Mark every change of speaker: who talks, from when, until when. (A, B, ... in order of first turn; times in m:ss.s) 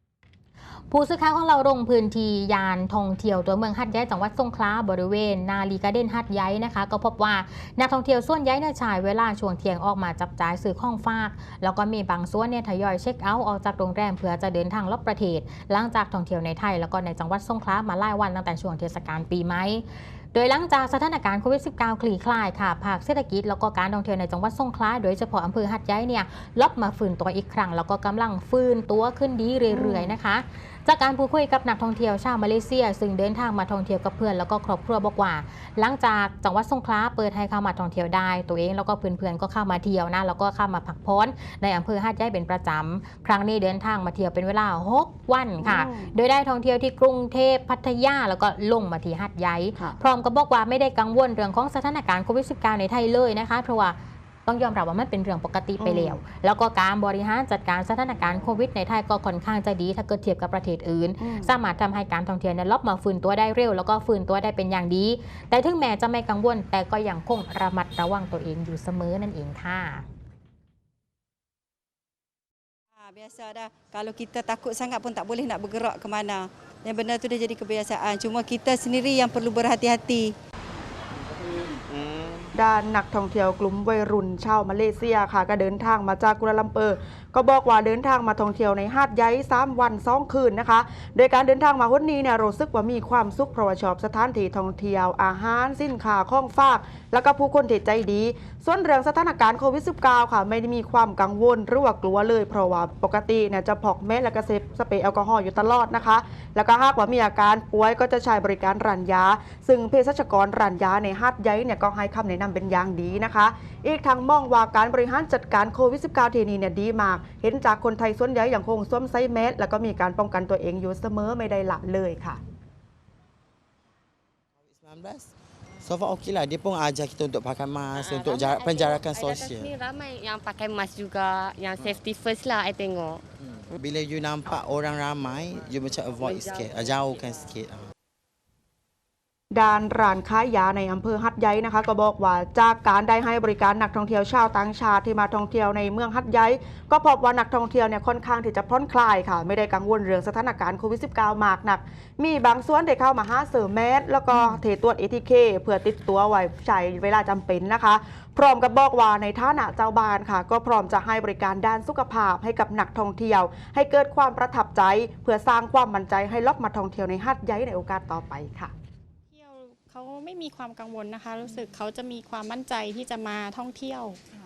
0:00.9-1:10.1 A
0:29.7-0:30.2 B
0:45.6-0:46.1 B
0:55.8-0:56.2 B
1:01.2-1:01.5 B
1:12.9-1:20.3 C
1:21.9-1:22.4 D
1:22.6-2:02.4 B
2:04.6-2:09.7 D
2:07.9-2:13.2 E
2:13.4-2:17.9 D
2:16.2-2:17.5 E
2:19.5-2:48.7 B
2:49.3-2:54.2 F